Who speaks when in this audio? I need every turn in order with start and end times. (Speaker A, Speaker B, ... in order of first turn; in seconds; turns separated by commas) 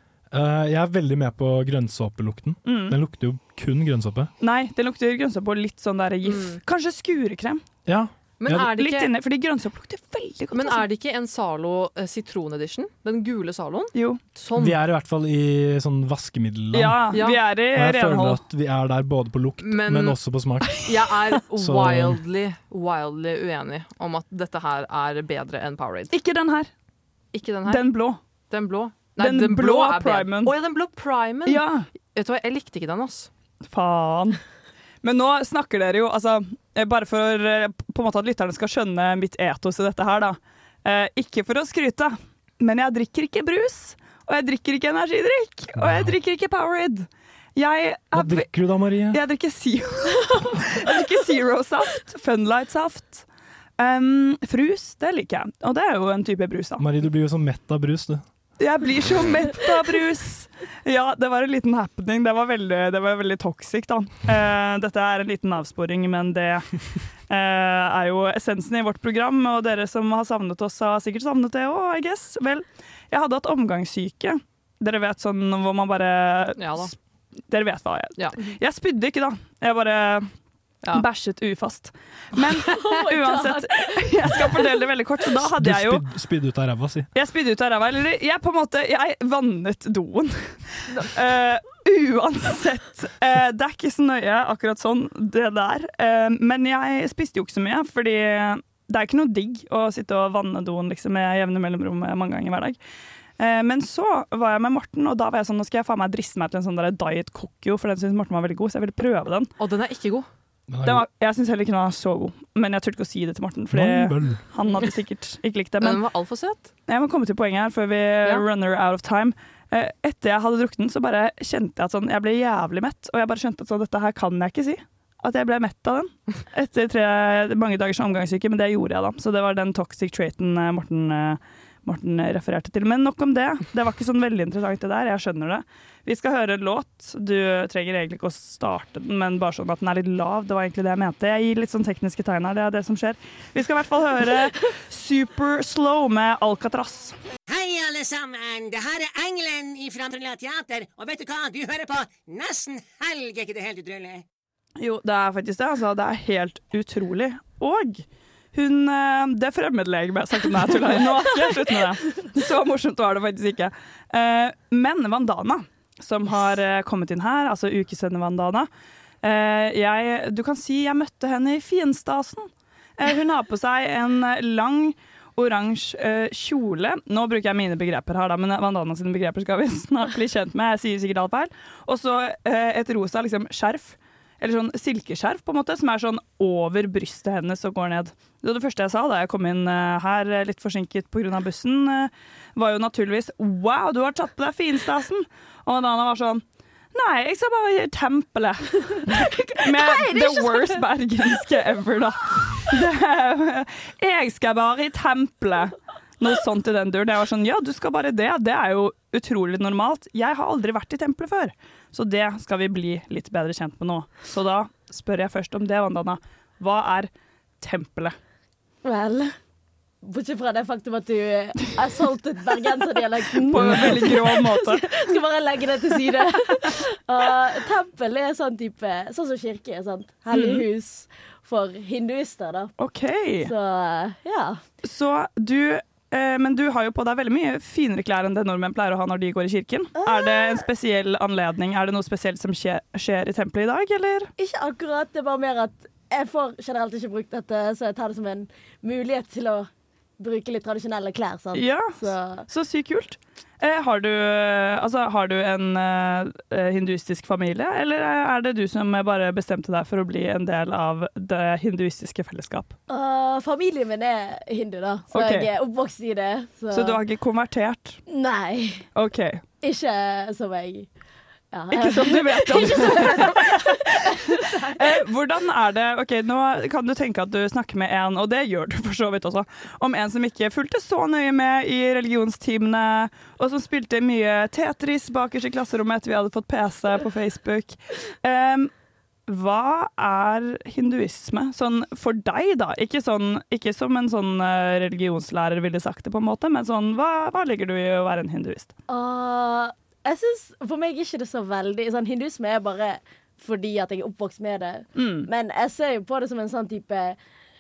Speaker A: 0.3-4.3, Speaker B: 2.7-3.0, Speaker B: 4.4-7.6, Speaker C: 6.2-6.6, Speaker A: 7.9-8.7, Speaker C: 8.4-9.1, Speaker B: 8.5-10.8, Speaker C: 10.5-14.8, Speaker A: 14.6-17.2, Speaker B: 16.7-18.4, Speaker C: 17.1-17.4, Speaker A: 17.7-21.1, Speaker C: 19.6-20.2, Speaker C: 20.8-26.1, Speaker A: 21.6-22.2, Speaker B: 26.1-26.7, Speaker C: 27.3-27.9, Speaker B: 27.7-28.2, Speaker C: 28.5-33.3, Speaker B: 29.2-30.5, Speaker B: 31.5-31.9, Speaker B: 33.7-34.4, Speaker B: 35.0-48.5, Speaker A: 45.8-46.1, Speaker A: 48.1-49.2, Speaker B: 49.1-53.3, Speaker B: 53.8-56.9, Speaker A: 56.8-58.2, Speaker B: 58.6-66.7, Speaker B: 67.3-76.9, Speaker C: 76.6-76.9, Speaker B: 77.5-80.3, Speaker B: 80.9-86.0, Speaker D: 82.7-84.6, Speaker A: 85.5-87.1, Speaker B: 87.2-102.8, Speaker B: 103.4-109.5, Speaker C: 109.6-110.3, Speaker A: 110.7-111.0, Speaker B: 110.8-116.0, Speaker A: 113.7-114.4, Speaker C: 115.8-116.7, Speaker B: 116.9-147.1, Speaker E: 147.5-154.2, Speaker B: 154.8-168.7, Speaker B: 169.2-196.4, Speaker B: 196.9-217.1, Speaker D: 199.2-200.8, Speaker B: 217.6-218.2, Speaker D: 218.8-219.3, Speaker D: 220.0-232.7, Speaker B: 223.4-224.9, Speaker B: 230.3-230.6, Speaker B: 232.8-233.5, Speaker D: 233.4-234.6, Speaker B: 234.8-244.3, Speaker D: 240.0-240.7, Speaker D: 244.4-252.5, Speaker B: 251.5-262.7, Speaker D: 262.9-267.0, Speaker B: 265.1-265.5, Speaker B: 266.7-268.0, Speaker D: 268.1-268.9, Speaker B: 268.9-269.4, Speaker D: 269.6-270.9, Speaker D: 271.5-275.0, Speaker B: 271.7-288.7, Speaker B: 289.3-298.7, Speaker D: 298.9-307.2, Speaker B: 305.0-305.3